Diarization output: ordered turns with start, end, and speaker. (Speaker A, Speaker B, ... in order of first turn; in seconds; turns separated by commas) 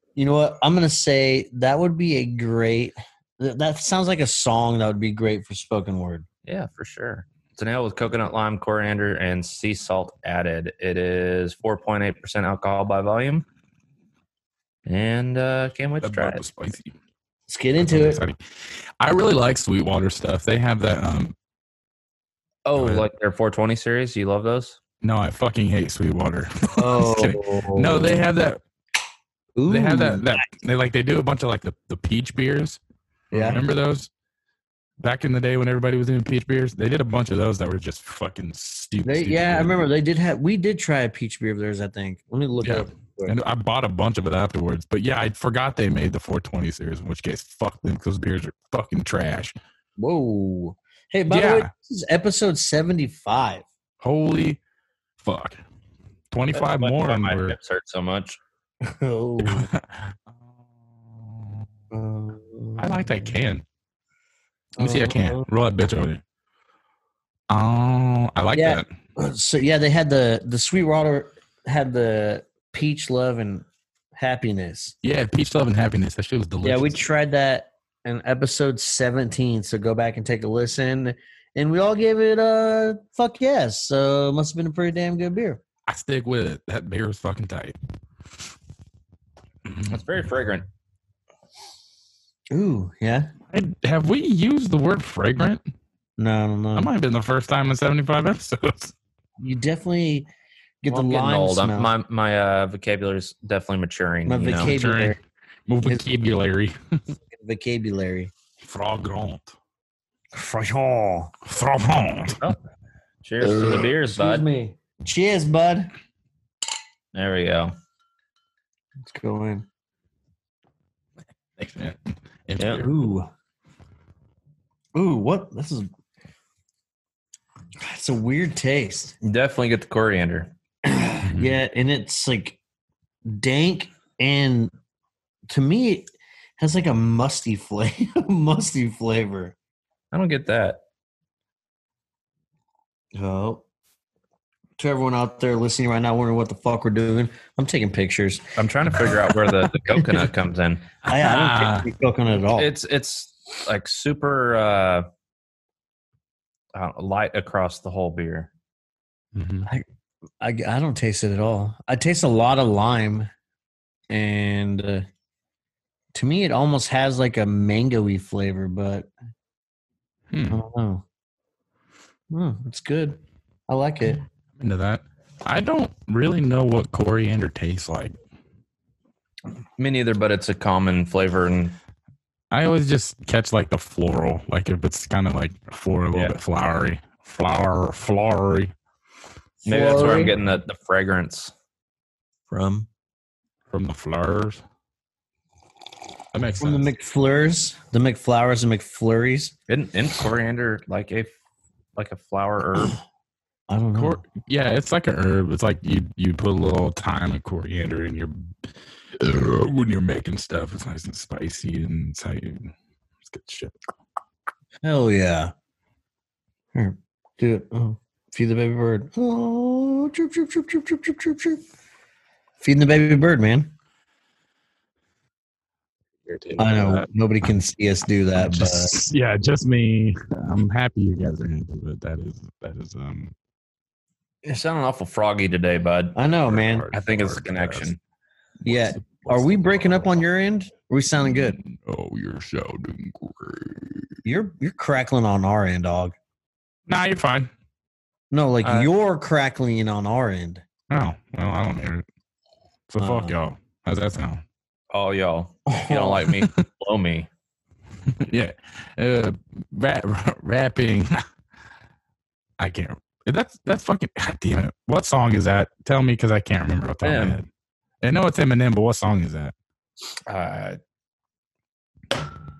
Speaker A: 0.2-6.3, Speaker B: 6.5-13.5, Speaker B: 14.9-16.4, Speaker C: 16.0-16.9, Speaker A: 17.5-18.2, Speaker C: 17.8-21.4, Speaker B: 22.7-24.8, Speaker C: 22.8-23.1, Speaker C: 25.0-28.6, Speaker A: 26.8-28.2, Speaker A: 29.6-30.4, Speaker C: 29.7-32.8, Speaker A: 33.3-33.6, Speaker B: 33.3-33.6, Speaker C: 33.4-34.1, Speaker C: 35.0-39.8, Speaker A: 39.0-43.4, Speaker C: 42.6-49.5, Speaker A: 50.0-53.7, Speaker C: 51.3-51.7, Speaker C: 54.0-54.6, Speaker C: 55.2-55.6, Speaker C: 56.3-57.6, Speaker B: 56.5-58.4, Speaker A: 58.8-59.7, Speaker C: 59.4-60.2, Speaker A: 61.9-63.3, Speaker C: 62.8-63.6, Speaker A: 64.8-65.5, Speaker C: 64.8-66.2, Speaker C: 67.5-68.9, Speaker A: 68.5-74.9, Speaker C: 75.0-77.0, Speaker A: 76.6-85.6, Speaker C: 85.9-87.8, Speaker C: 89.7-89.9, Speaker B: 89.9-90.7, Speaker A: 92.5-93.3, Speaker C: 93.5-95.6, Speaker A: 96.2-96.9, Speaker C: 96.8-98.9, Speaker A: 99.4-100.3, Speaker A: 100.8-101.9, Speaker B: 100.9-104.8, Speaker A: 104.3-105.2, Speaker C: 104.6-107.0, Speaker A: 107.3-108.3, Speaker C: 108.6-109.5, Speaker A: 110.3-111.3, Speaker C: 111.5-112.4, Speaker B: 113.2-114.5, Speaker A: 113.4-115.9, Speaker B: 117.1-117.7, Speaker A: 119.0-119.7, Speaker C: 121.6-122.9, Speaker B: 122.6-122.8, Speaker A: 122.8-123.3, Speaker A: 125.0-125.9, Speaker A: 127.8-129.2, Speaker B: 129.2-130.5, Speaker A: 130.8-132.6, Speaker C: 131.3-131.6, Speaker A: 133.3-134.7, Speaker A: 135.5-139.6, Speaker B: 140.1-140.8, Speaker A: 143.2-143.6, Speaker A: 144.8-148.5, Speaker B: 148.6-150.9, Speaker C: 151.1-151.9, Speaker A: 151.1-152.7, Speaker B: 152.5-155.1, Speaker B: 156.8-158.5, Speaker C: 159.3-159.7, Speaker A: 160.4-163.3, Speaker A: 164.1-165.1, Speaker A: 166.1-169.1, Speaker C: 170.3-170.6, Speaker A: 170.5-171.1, Speaker A: 172.3-174.2, Speaker C: 174.6-178.2, Speaker B: 179.8-181.8, Speaker C: 182.5-188.7, Speaker A: 189.6-190.3, Speaker B: 189.7-191.5, Speaker A: 192.5-192.9, Speaker C: 193.7-194.6, Speaker C: 196.3-196.9, Speaker A: 196.6-199.5, Speaker B: 199.7-201.3, Speaker B: 202.0-203.0, Speaker A: 203.7-204.2, Speaker C: 204.0-213.8, Speaker A: 214.8-215.5, Speaker A: 216.7-221.6, Speaker A: 222.6-223.7, Speaker C: 226.2-227.1, Speaker A: 226.6-228.9, Speaker C: 228.4-233.3, Speaker B: 234.4-236.2, Speaker A: 236.2-236.9, Speaker C: 236.5-237.9, Speaker B: 236.9-238.0, Speaker C: 238.6-240.1, Speaker A: 238.7-241.6, Speaker C: 241.2-244.1, Speaker A: 244.2-246.2, Speaker C: 246.9-247.5, Speaker A: 248.3-250.6, Speaker B: 248.6-248.9, Speaker C: 250.9-252.1, Speaker C: 252.9-254.4, Speaker A: 253.0-253.4, Speaker B: 254.9-257.3, Speaker A: 255.7-256.2, Speaker C: 258.1-261.2, Speaker C: 262.6-267.5, Speaker B: 267.0-267.4, Speaker C: 268.0-269.5, Speaker B: 270.3-270.8